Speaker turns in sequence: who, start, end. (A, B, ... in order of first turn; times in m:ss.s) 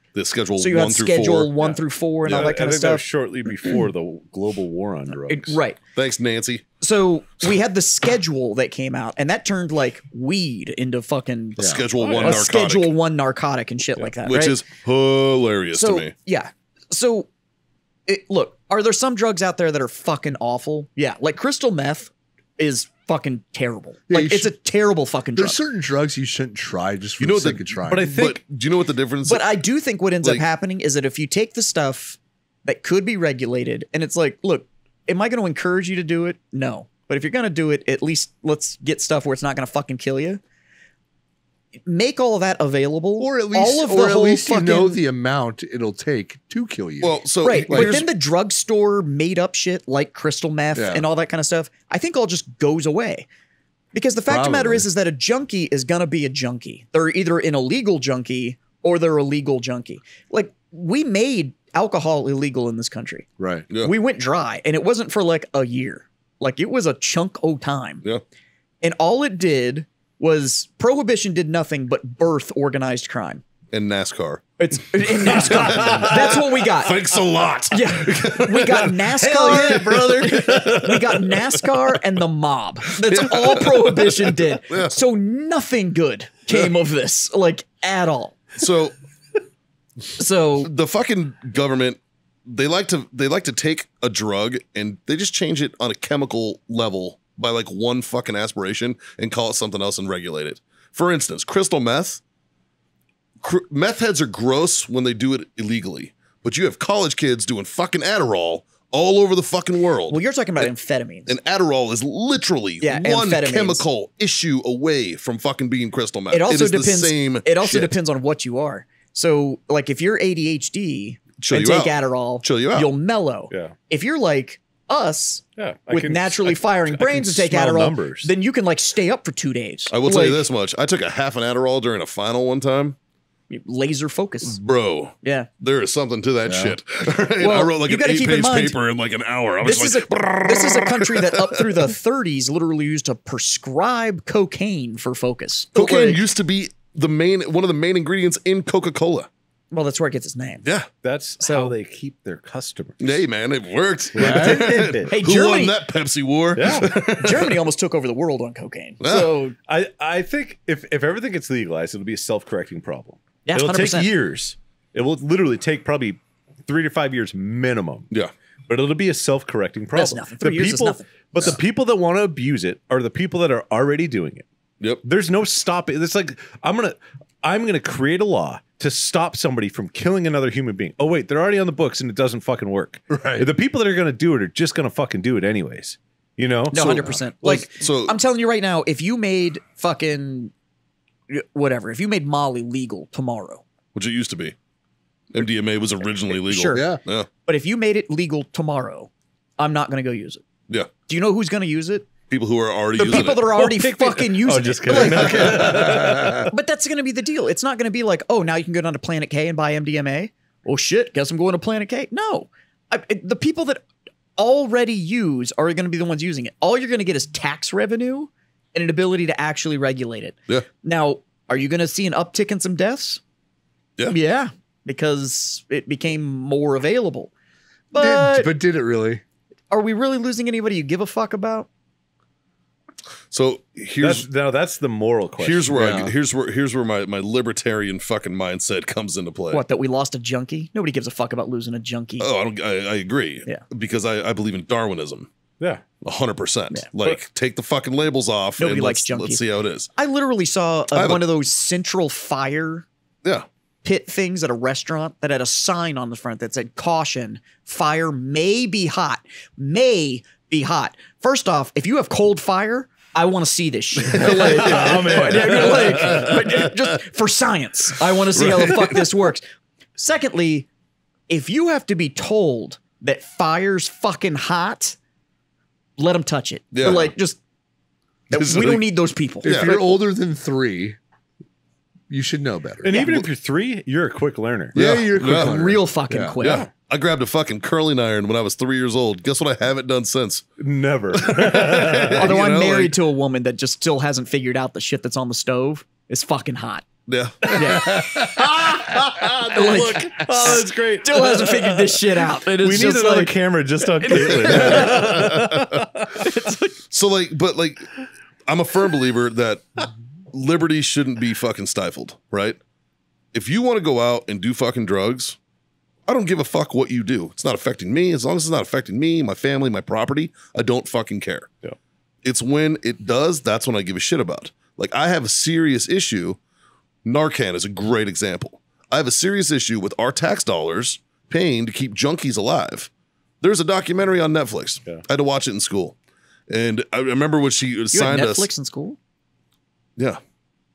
0:00.1-0:01.5 A
0:00.6-0:03.0 B
0:01.6-0:05.6 C
0:05.3-0:05.8 B
0:06.0-0:06.6 A
0:06.8-0:14.6 B
0:11.6-0:11.8 D
0:11.6-0:12.9 A
0:12.0-0:12.4 C
0:14.2-0:16.1 A
0:15.7-0:17.3 B
0:18.1-0:25.6 B
0:24.1-0:24.5 D
0:25.4-0:28.2 D
0:27.2-0:29.5 A
0:27.9-0:28.4 C
0:29.2-0:40.4 B
0:41.8-0:45.0 B
0:43.2-0:48.0 D
0:47.0-0:48.1 A
0:47.4-0:53.3 B
0:50.7-0:51.0 D
0:53.9-1:03.2 B
0:54.3-0:54.8 D
1:03.4-1:03.6 D
1:03.8-1:08.0 B
1:08.8-1:13.4 B
1:13.7-1:19.0 A
1:14.6-1:17.0 B
1:15.3-1:16.4 C
1:17.7-1:28.4 B
1:19.2-1:21.2 C
1:23.1-1:24.9 A
1:28.6-1:28.9 A
1:30.2-1:30.7 B
1:30.6-1:42.2 A
1:43.4-1:50.7 A
1:50.1-1:51.3 B
1:51.3-1:57.9 A
1:52.8-1:53.8 B
1:56.3-2:10.4 B
2:01.4-2:02.9 A
2:05.6-2:08.3 C
2:09.9-2:13.0 A
2:13.5-2:14.6 B
2:14.4-2:21.9 A
2:15.2-2:15.5 B
2:16.4-2:16.8 D
2:17.4-2:18.8 B
2:19.6-2:26.2 B
2:25.7-2:29.3 A
2:29.7-2:30.6 B
2:30.6-2:30.9 A
2:31.0-2:33.2 C
2:31.4-2:31.7 B
2:33.0-2:37.5 A
2:34.1-2:34.6 D
2:34.1-2:35.1 C
2:35.0-2:35.7 B
2:36.5-2:37.0 C
2:37.2-2:39.6 B
2:39.0-2:39.4 A
2:39.7-2:48.1 C
2:43.4-2:44.1 B
2:48.7-2:54.4 C
2:49.9-2:51.5 B
2:55.0-3:07.2 C
3:03.1-3:03.5 D
3:06.7-3:10.5 B
3:07.4-3:08.2 A
3:11.3-3:13.6 B
3:13.9-3:14.5 A
3:15.3-3:17.3 A
3:16.3-3:16.9 B
3:16.7-3:17.0 D
3:17.4-3:20.4 B
3:21.1-3:22.1 B
3:22.3-3:23.5 A
3:23.0-3:33.8 B
3:23.6-3:26.5 C
3:24.9-3:25.7 A
3:25.6-3:26.5 D
3:34.4-3:43.2 B
3:44.1-3:47.3 B
3:47.9-3:48.5 B
3:47.9-3:49.2 D
3:49.7-3:51.7 B
3:53.3-3:54.2 A
3:54.0-3:55.7 C
3:55.4-3:59.6 A
3:55.7-3:56.1 D
3:59.5-4:02.3 B
4:02.2-4:05.3 A
4:06.0-4:09.9 A
4:08.6-4:09.4 B
4:09.9-4:12.8 B
4:10.9-4:11.2 A
4:13.8-4:29.4 B
4:24.2-4:26.3 C
4:24.2-4:26.7 A
4:28.3-4:29.0 A
4:30.0-4:30.7 B
4:31.3-4:35.0 B
4:36.0-4:37.4 B
4:36.7-4:37.1 A
4:38.3-4:39.9 B
4:38.3-4:38.9 A
4:39.4-4:39.8 A
4:39.4-4:41.0 D
4:42.1-4:42.9 D
4:42.8-4:44.7 C
4:42.9-4:43.2 B
4:44.7-4:45.6 A
4:44.7-4:46.3 D
4:45.2-4:46.6 B
4:46.4-4:50.5 A
4:50.6-4:52.3 C
4:51.1-4:52.9 A
4:52.1-4:56.9 B
4:57.1-4:57.5 A
4:57.4-5:06.2 C
4:57.5-4:58.4 B
4:59.4-5:03.3 B
5:04.0-5:05.2 B
5:04.1-5:05.8 A
5:06.1-5:06.8 B
5:06.9-5:12.6 A
5:13.3-5:15.4 A
5:16.1-5:21.5 A
5:22.2-5:26.4 A
5:27.0-5:32.9 A
5:33.4-5:35.9 A
5:36.5-5:38.5 A
5:37.9-5:39.0 B